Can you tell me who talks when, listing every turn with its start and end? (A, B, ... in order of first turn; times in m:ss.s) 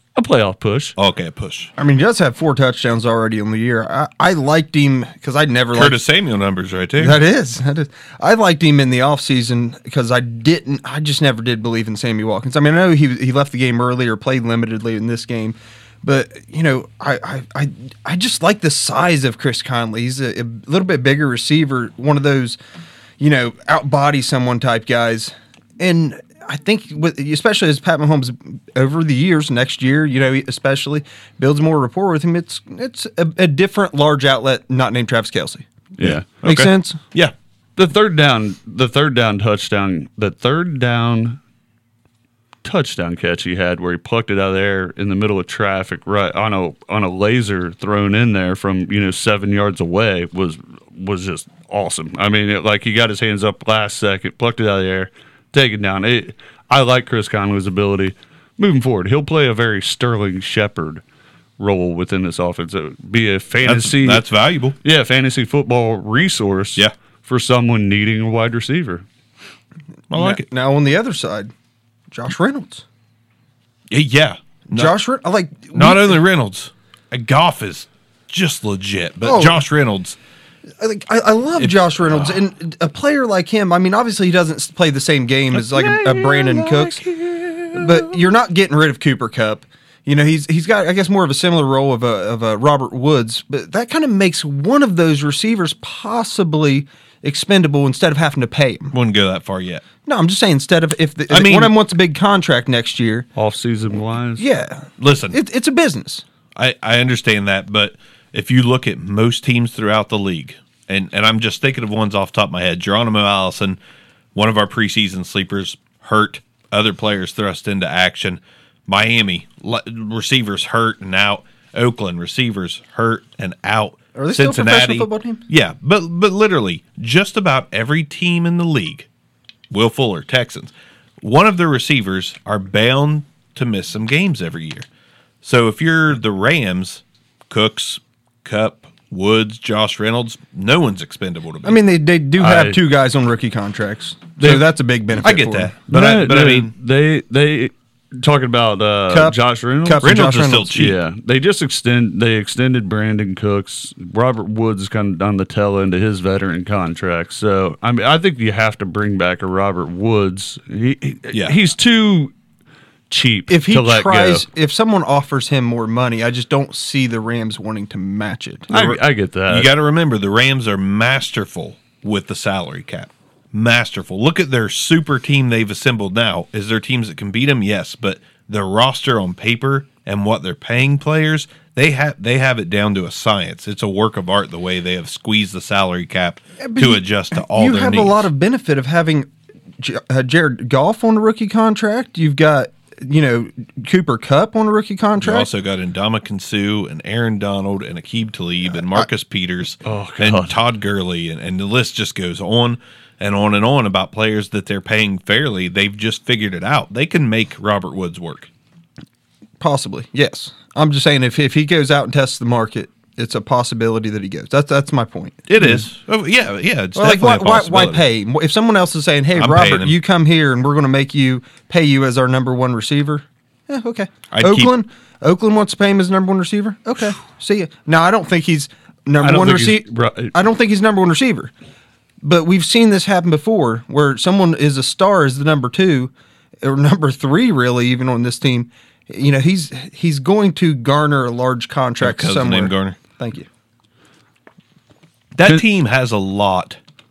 0:00.2-0:01.0 A
0:01.0-0:01.7 B
0:01.8-0:06.0 C
0:05.7-0:07.2 B
0:07.0-0:22.6 C
0:23.2-0:35.6 C
0:36.0-0:36.2 A
0:36.0-0:37.3 B
0:36.4-0:37.0 C
0:37.8-0:41.4 A
0:42.6-1:01.0 A
1:01.6-1:04.2 A
1:03.6-1:04.8 B
1:04.8-1:09.0 A
1:10.1-1:10.5 B
1:10.1-1:11.5 C
1:12.1-1:12.8 C
1:13.9-1:14.9 B
1:14.7-1:16.2 C
1:15.7-1:20.2 B
1:19.2-1:19.6 C
1:20.8-1:27.0 C
1:21.6-1:22.4 B
1:25.7-1:27.8 B
1:27.7-1:38.9 C
1:38.9-1:39.8 B
1:40.0-1:43.3 C
1:41.3-1:41.7 B
1:43.4-1:44.4 A
1:44.4-1:46.2 C
1:45.0-1:45.4 B
1:46.6-1:53.8 B
1:54.4-2:09.1 B
2:04.1-2:05.4 C
2:09.7-2:14.9 B
2:15.4-2:21.8 B
2:21.6-2:25.7 C
2:22.4-2:22.8 A
2:25.2-2:26.7 B
2:25.9-2:30.2 A
2:29.1-2:30.8 C
2:30.0-2:31.0 B
2:30.7-2:42.3 A
2:43.1-2:44.4 A
2:43.5-2:48.7 C
2:48.7-2:49.7 A
2:48.7-3:08.3 B
3:06.6-3:09.3 C
3:09.8-3:15.5 C
3:15.2-3:28.5 B
3:19.8-3:20.6 A
3:29.6-3:35.8 C
3:35.5-3:38.0 B
3:37.0-3:51.5 C
3:39.3-3:40.0 B
3:44.3-3:44.7 B
3:49.2-3:50.3 A
3:52.2-3:56.1 C
3:56.6-4:03.5 C
4:02.0-4:03.0 B
4:05.4-4:06.8 B